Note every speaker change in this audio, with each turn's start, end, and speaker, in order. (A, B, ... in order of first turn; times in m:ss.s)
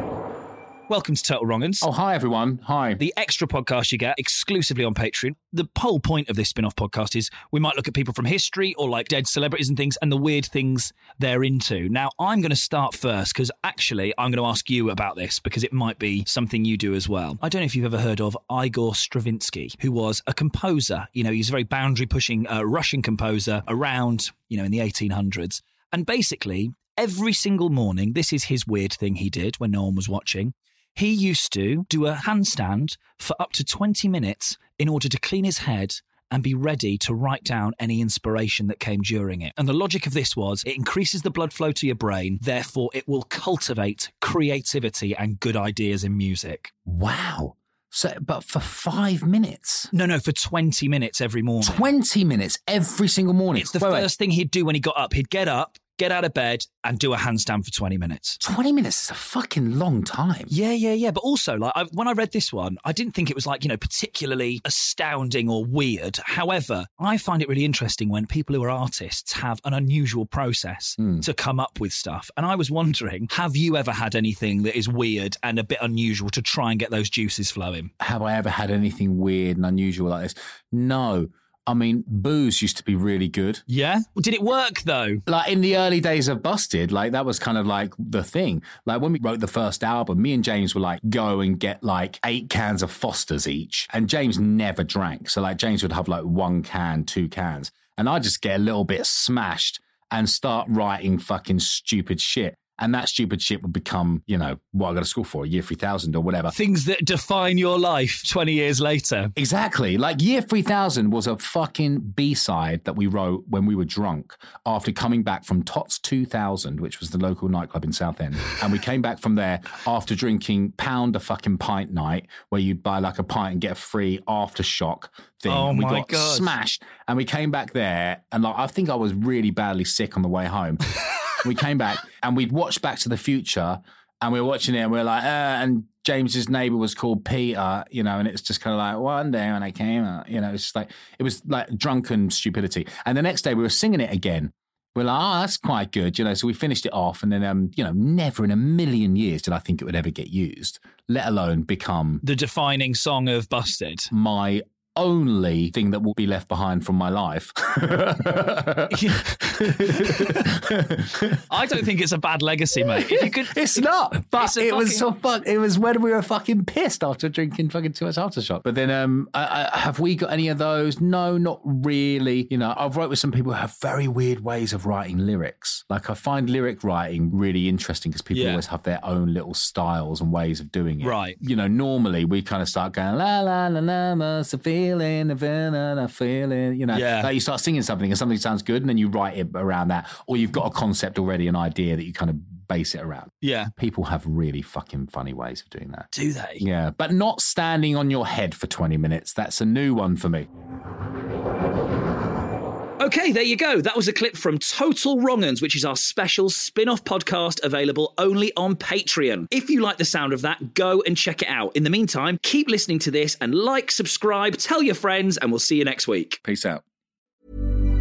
0:00.9-0:01.8 A
0:01.8-0:03.0 B
0:03.0-0:46.7 A
0:46.8-0:49.9 B
0:49.9-0:51.9 A
0:51.6-0:54.1 B
0:53.6-0:58.4 A
0:58.4-1:00.5 B
1:00.5-1:17.9 A
1:18.0-1:23.6 B
1:23.7-1:25.2 A
1:25.3-1:46.5 B
1:46.5-1:49.3 A
1:49.4-2:10.8 B
2:05.5-2:06.5 A
2:11.4-2:32.2 B
2:32.2-2:34.1 A
2:34.1-2:41.4 B
2:38.9-2:40.6 A
2:41.5-2:45.0 A
2:42.9-3:16.1 B
2:58.3-2:58.6 A
3:01.0-3:01.4 A
3:06.9-3:07.3 A
3:13.4-3:13.7 A
3:16.1-3:16.6 A
3:16.6-3:20.5 B
3:23.0-3:36.4 A
3:36.4-3:36.8 B